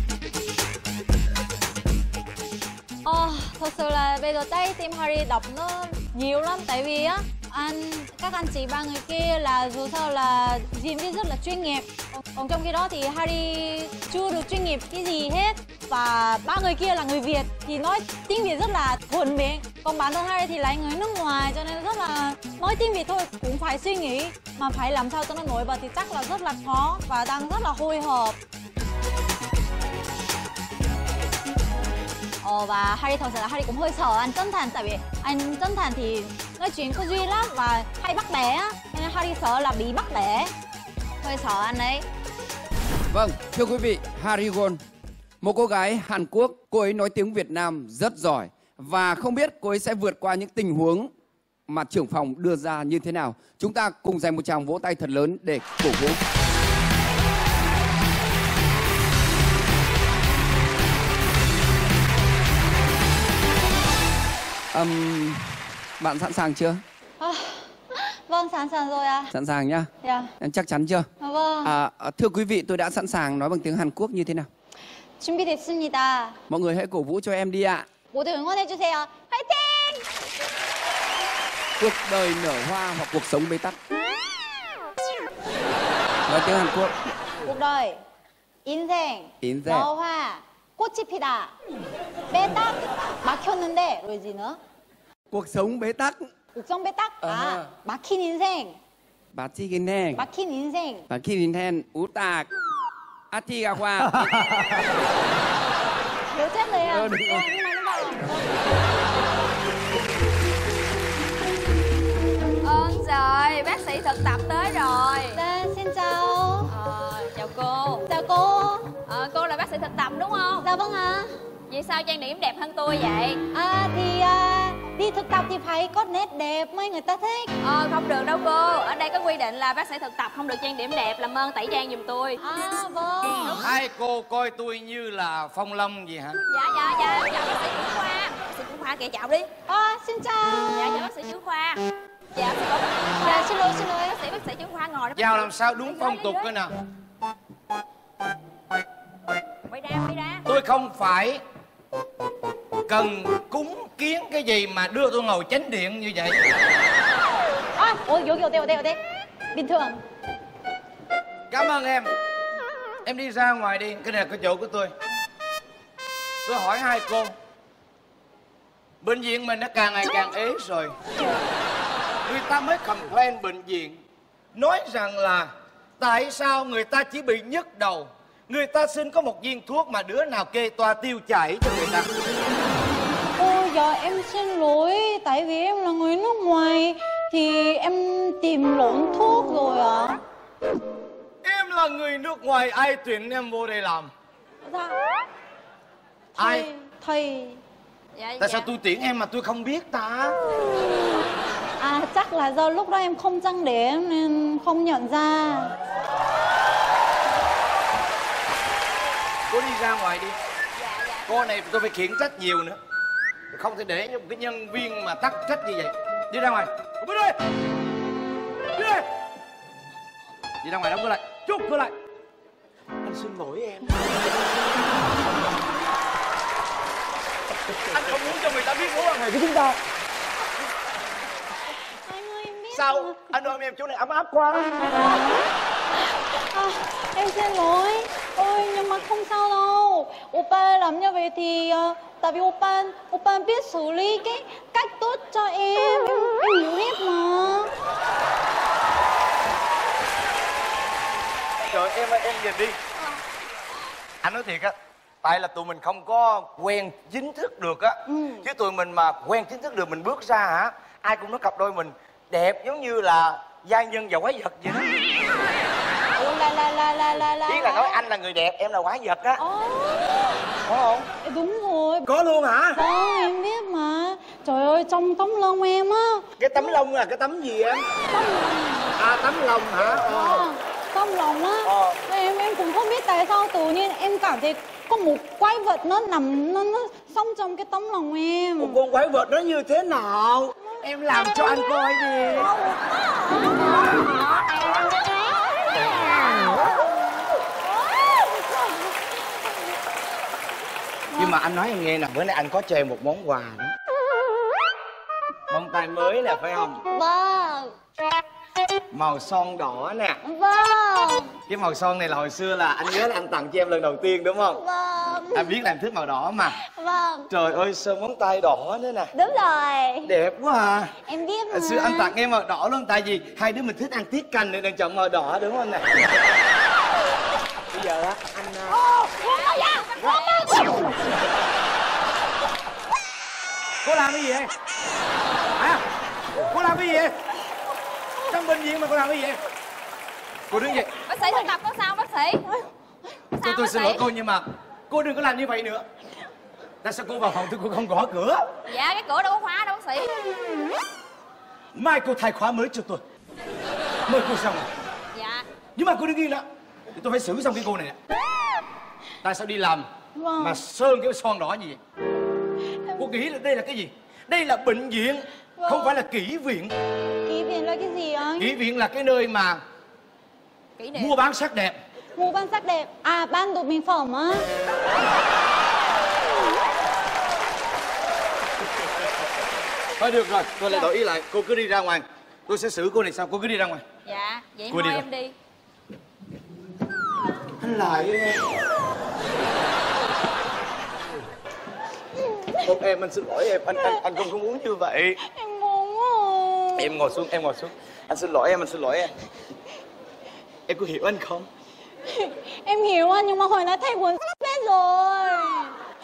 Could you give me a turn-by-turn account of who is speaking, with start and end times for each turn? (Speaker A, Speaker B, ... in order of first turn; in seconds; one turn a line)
Speaker A: 3.0-28.4
Speaker A: 32.4-40.5
Speaker A: 41.2-42.0
Speaker B: 43.1-44.8
Speaker B: 45.4-51.1
Speaker B: 51.7-56.2
Speaker B: 64.7-66.8
Speaker A: 67.2-69.3
Speaker B: 69.3-69.9
Speaker A: 70.0-70.3
Speaker B: 70.4-71.1
Speaker A: 71.2-71.7
Speaker B: 71.6-74.5
Speaker A: 75.2-76.3
Speaker B: 76.5-77.8
Speaker A: 78.1-80.0
Speaker B: 81.8-83.8
Speaker B: 86.3-87.1
Speaker A: 87.4-88.0
Speaker A: 88.6-91.5
Speaker B: 89.4-89.9
Speaker A: 92.3-94.6
Speaker B: 95.3-96.3
Speaker A: 96.5-98.8
Speaker B: 97.3-97.6
Speaker B: 99.3-100.2
Speaker A: 100.1-101.0
Speaker B: 101.1-102.5
Speaker B: 103.3-104.3
Speaker A: 106.3-108.5
Speaker C: 112.6-115.4
Speaker A: 115.3-116.7
Speaker C: 116.7-118.0
Speaker A: 118.0-118.9
Speaker C: 119.0-120.7
Speaker A: 120.6-121.3
Speaker C: 121.7-123.4
Speaker A: 123.5-127.5
Speaker C: 127.6-132.4
Speaker A: 132.4-133.6
Speaker D: 133.6-136.4
Speaker C: 136.5-139.5
Speaker A: 139.7-141.0
Speaker C: 140.7-141.8
Speaker C: 142.3-143.5
Speaker A: 143.2-144.2
Speaker C: 144.0-146.5
Speaker D: 145.2-146.7
Speaker C: 149.7-150.4
Speaker D: 150.5-151.4
Speaker D: 152.9-156.4
Speaker A: 157.8-159.0
Speaker A: 159.5-160.0
Speaker D: 161.5-162.1
Speaker D: 163.0-164.9
Speaker D: 166.4-167.3
Speaker D: 169.0-170.9
Speaker D: 172.2-174.0
Speaker D: 174.5-182.1
Speaker A: 183.4-190.2
Speaker D: 191.4-194.1
Speaker A: 194.6-195.0
Speaker A: 196.3-197.6
Speaker D: 196.4-196.7
Speaker C: 198.1-198.7
Speaker D: 198.4-200.4
Speaker A: 201.8-205.7
Speaker D: 209.5-210.3
Speaker C: 210.7-211.3
Speaker D: 211.3-212.8
Speaker D: 213.5-217.4
Speaker D: 218.7-219.1
Speaker D: 220.6-221.9
Speaker D: 223.0-224.2
Speaker D: 227.9-229.8
Speaker A: 232.1-233.2
Speaker D: 232.7-235.1
Speaker A: 236.3-247.7
Speaker D: 251.6-252.8
Speaker D: 254.2-264.9
Speaker A: 258.1-258.5
Speaker A: 266.1-268.0
Speaker D: 267.5-269.4
Speaker A: 269.4-270.4
Speaker D: 270.6-271.1
Speaker A: 271.2-272.1
Speaker D: 272.1-272.8
Speaker A: 272.8-276.2
Speaker D: 276.4-277.9
Speaker A: 278.1-278.9
Speaker D: 279.0-280.5
Speaker A: 280.1-288.8
Speaker D: 281.6-282.0
Speaker D: 288.6-292.5
Speaker A: 292.4-294.0
Speaker A: 296.2-296.8
Speaker A: 297.9-299.0
Speaker D: 301.1-303.7
Speaker D: 305.5-306.8
Speaker A: 306.9-307.7
Speaker D: 308.9-310.2
Speaker A: 310.2-311.3
Speaker D: 311.5-314.6
Speaker A: 314.5-315.5
Speaker D: 315.3-316.6
Speaker A: 316.6-317.3
Speaker D: 317.3-319.1
Speaker A: 319.1-320.1
Speaker D: 320.0-320.9
Speaker A: 321.0-322.1
Speaker D: 321.5-325.9
Speaker D: 327.7-328.8
Speaker A: 328.7-329.9
Speaker C: 329.2-330.5
Speaker D: 333.8-334.5
Speaker D: 335.6-335.8
Speaker D: 336.5-337.1
Speaker D: 338.3-339.4
Speaker D: 340.5-340.9
Speaker C: 341.1-342.5
Speaker C: 343.3-344.1
Speaker D: 343.4-345.9
Speaker D: 346.8-348.5
Speaker C: 348.7-350.1
Speaker D: 351.7-353.0
Speaker D: 354.1-354.7
Speaker C: 355.1-355.4
Speaker D: 355.8-357.9
Speaker D: 359.2-359.9
Speaker A: 360.1-360.6
Speaker D: 360.4-361.8
Speaker D: 363.0-366.7
Speaker A: 365.6-366.0
Speaker A: 367.2-368.5
Speaker D: 368.4-369.6
Speaker C: 370.8-371.1
Speaker D: 370.9-371.8
Speaker A: 372.1-374.4
Speaker D: 380.0-383.8
Speaker C: 384.0-385.3
Speaker D: 384.7-385.0
Speaker D: 387.6-388.5
Speaker D: 392.6-395.2
Speaker A: 395.2-396.9
Speaker D: 396.8-399.1
Speaker D: 400.7-401.5
Speaker A: 402.1-405.8